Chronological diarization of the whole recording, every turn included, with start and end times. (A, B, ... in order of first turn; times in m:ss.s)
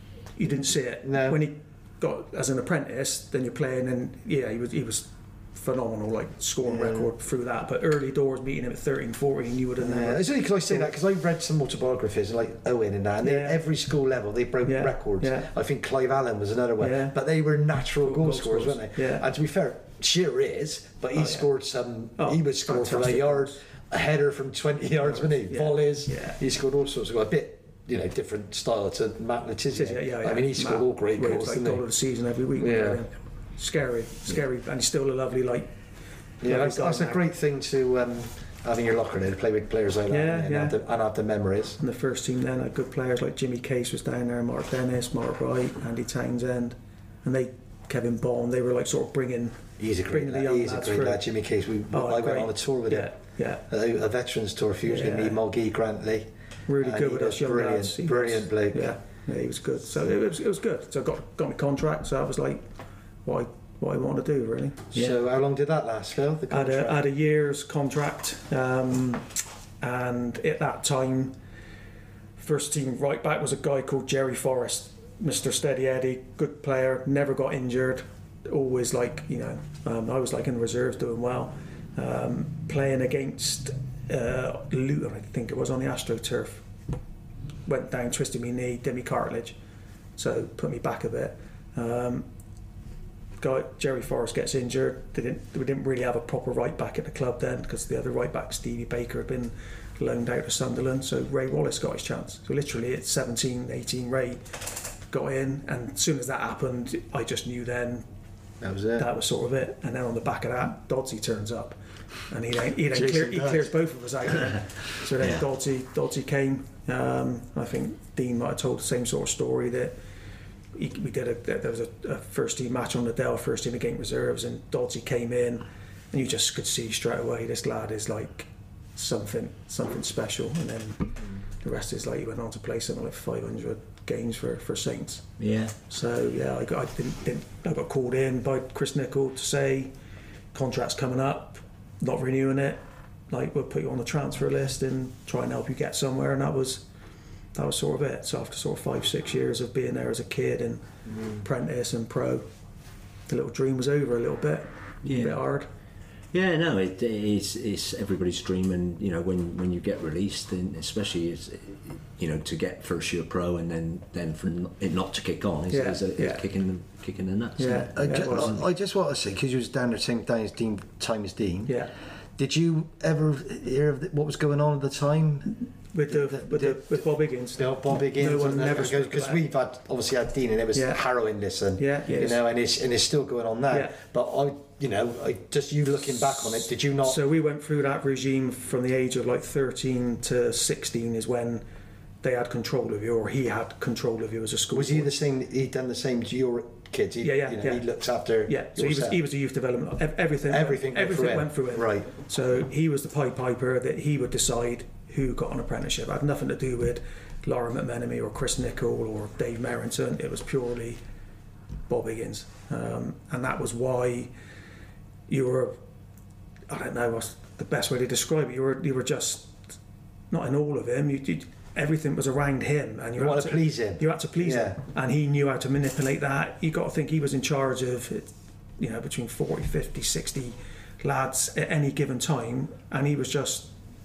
0:00.4-0:10.9 A
0:01.0-0:01.4 B
0:06.6-0:07.1 B
0:09.8-0:31.8 B
0:13.2-0:13.6 A
0:14.6-0:15.5 A
0:16.8-0:17.1 A
0:18.0-0:19.2 A
0:21.1-0:21.4 A
0:22.2-0:23.6 A
0:25.0-0:26.4 A
0:29.7-0:35.7 A
0:32.6-0:33.0 B
0:36.4-0:41.8 B
0:36.4-0:37.2 A
0:40.1-0:40.7 A
0:41.8-0:51.2 A
0:49.8-0:53.1 B
0:51.9-0:53.6 A
0:53.7-0:56.3 B
0:54.8-0:55.4 A
0:56.7-1:02.6 A
0:56.8-0:58.9 B
1:03.2-1:04.9 A
1:04.9-1:07.0 B
1:06.5-1:09.3 A
1:09.8-1:11.3 A
1:12.4-1:26.6 A
1:27.6-1:29.6 A
1:30.2-1:32.2 A
1:33.4-1:44.5 A
1:45.1-1:48.0 A
1:48.6-1:49.1 B
1:49.0-1:51.8 A
1:52.3-1:59.9 A
1:52.9-1:53.7 B
2:00.7-2:11.1 A
2:11.6-2:15.3 A
2:15.4-2:15.8 C
2:15.9-2:19.9 A
2:20.5-2:26.8 A
2:27.5-2:30.8 A
2:31.4-2:32.4 A
2:33.3-2:35.7 A
2:35.0-2:35.4 C
2:36.3-2:48.4 C
2:45.7-2:46.4 A
2:47.6-2:48.6 A
2:48.0-2:51.7 B
2:51.7-2:51.9 A
2:52.4-2:55.5 B
2:55.9-2:59.4 A
2:56.1-2:57.0 B
2:57.6-3:07.2 B
3:01.8-3:02.4 A
3:07.0-3:11.6 A
3:12.2-3:15.2 A
3:14.7-3:19.2 B
3:17.2-3:17.8 A
3:18.4-3:31.0 A
3:20.5-3:22.1 B
3:31.9-3:34.3 A
3:35.3-3:35.8 A
3:36.7-3:39.6 A
3:40.3-3:53.7 A
3:43.2-3:44.8 B